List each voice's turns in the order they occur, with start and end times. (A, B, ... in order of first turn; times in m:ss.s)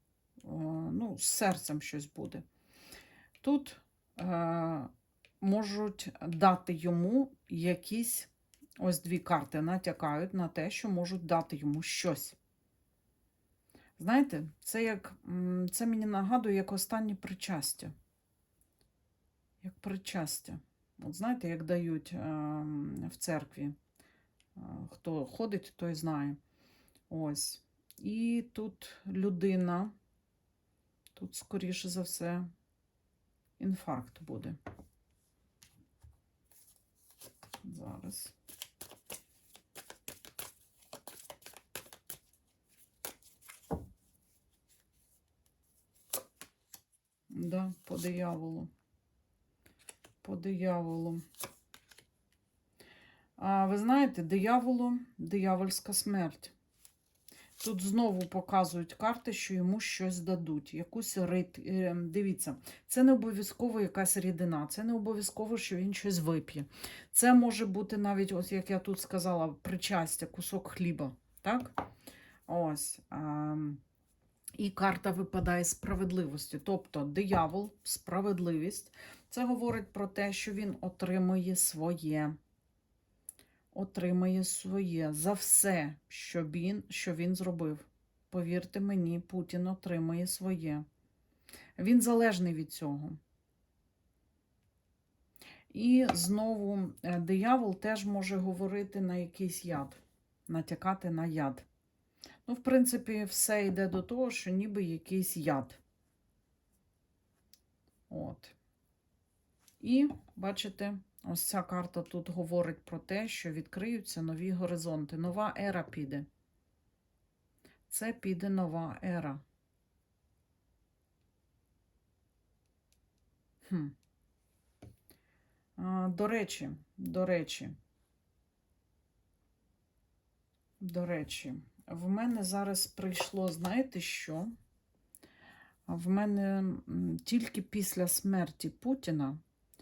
0:00.4-0:02.4 A
0:03.4-0:12.4 A
0:14.0-0:17.9 A
0:19.6-0:23.8 A
0:24.5-0:26.4 A
0:27.1-0:29.9 A
0:31.1-0:32.5 A
0:33.6-0:34.6 A
0:37.6-0:38.3 A
0:47.3-0:48.7 A
0:50.2-0:51.2 A
0:53.4-0:56.5 A
0:57.6-1:11.8 A
1:12.5-1:13.8 A
1:14.6-1:22.4 A
1:23.7-1:30.8 A
1:31.8-1:33.2 A
1:35.7-1:41.7 A
1:42.4-1:45.8 A
1:48.1-1:48.6 A
1:49.8-1:56.3 A
1:57.9-1:59.4 A
2:03.6-2:03.9 A
2:05.8-2:07.8 A
2:10.8-2:14.6 A
2:15.9-2:19.4 A